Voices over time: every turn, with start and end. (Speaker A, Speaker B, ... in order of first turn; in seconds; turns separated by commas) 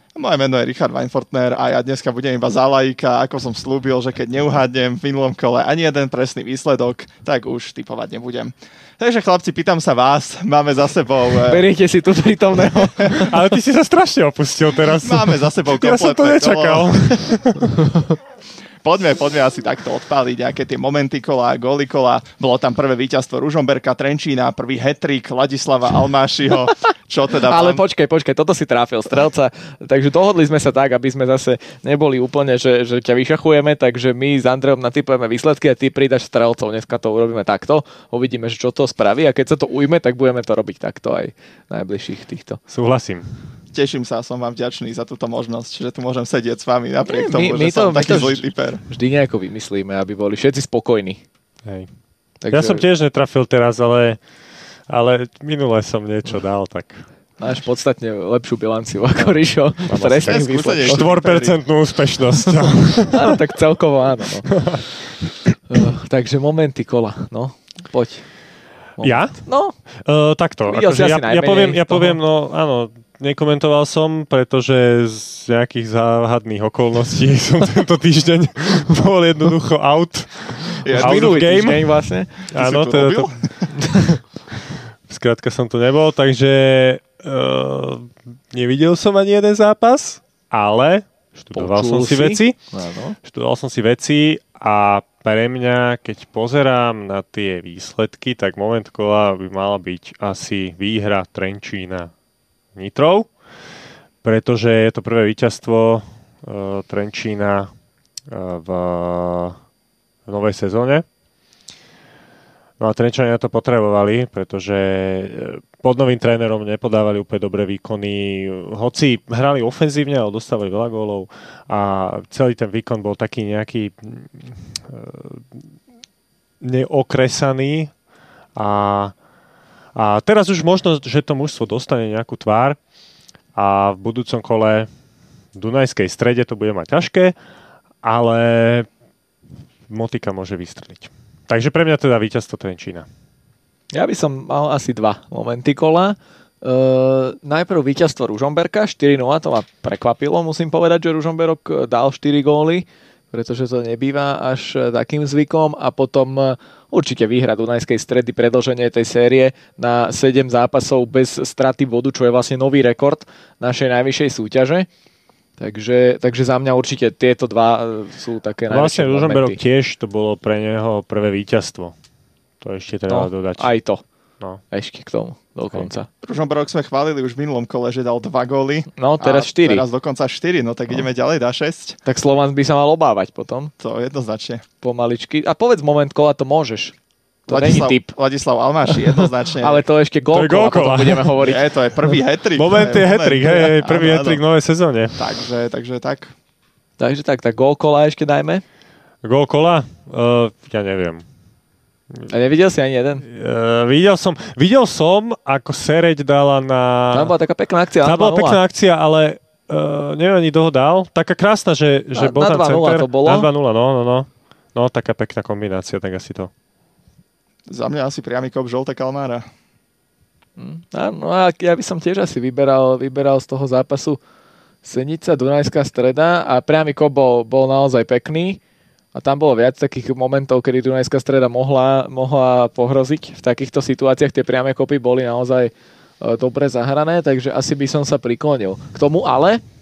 Speaker A: 0.1-11.7, Speaker B: 11.4-13.3, Speaker C: 13.2-17.9, Speaker A: 15.0-17.1, Speaker A: 18.8-27.8, Speaker B: 27.5-42.6, Speaker C: 42.7-43.3, Speaker A: 43.7-48.8, Speaker B: 47.0-51.2, Speaker B: 52.4-52.9, Speaker C: 52.5-54.2, Speaker C: 54.9-57.0, Speaker B: 57.4-61.0, Speaker C: 59.9-63.4, Speaker A: 60.2-61.6, Speaker B: 63.1-64.6, Speaker C: 64.5-64.8, Speaker B: 65.7-68.2, Speaker B: 69.0-69.8, Speaker C: 69.0-69.4, Speaker C: 70.0-83.4, Speaker B: 70.7-72.2, Speaker A: 80.8-81.6, Speaker B: 80.9-82.4, Speaker A: 82.5-83.7, Speaker B: 83.8-84.2, Speaker C: 85.1-92.6, Speaker B: 91.5-93.2, Speaker C: 93.2-102.1, Speaker C: 102.8-103.3, Speaker C: 104.2-107.7, Speaker C: 108.3-109.6, Speaker C: 110.3-111.0, Speaker C: 112.8-125.5, Speaker C: 126.6-127.9, Speaker C: 128.6-129.1, Speaker C: 129.9-132.8, Speaker C: 133.6-134.9, Speaker C: 135.6-137.3, Speaker C: 138.0-138.9, Speaker C: 139.9-143.1, Speaker B: 143.9-164.9, Speaker B: 165.6-169.6, Speaker C: 168.7-171.9, Speaker C: 172.6-173.7, Speaker B: 173.1-174.0, Speaker B: 174.7-176.1, Speaker A: 176.2-182.0, Speaker B: 179.0-179.9, Speaker B: 182.1-183.7, Speaker A: 183.8-184.6, Speaker B: 184.8-186.9, Speaker B: 187.5-188.1, Speaker A: 187.5-189.8, Speaker B: 188.9-191.6, Speaker C: 190.3-191.3, Speaker A: 191.4-194.4, Speaker C: 192.6-195.2, Speaker A: 195.2-196.3, Speaker B: 197.0-198.6, Speaker C: 199.2-201.2, Speaker B: 202.3-203.3, Speaker C: 203.3-207.3, Speaker B: 207.1-208.6, Speaker C: 208.0-216.5, Speaker B: 212.2-213.5, Speaker A: 217.7-219.4, Speaker B: 220.6-224.2, Speaker B: 224.8-228.6, Speaker B: 229.1-239.6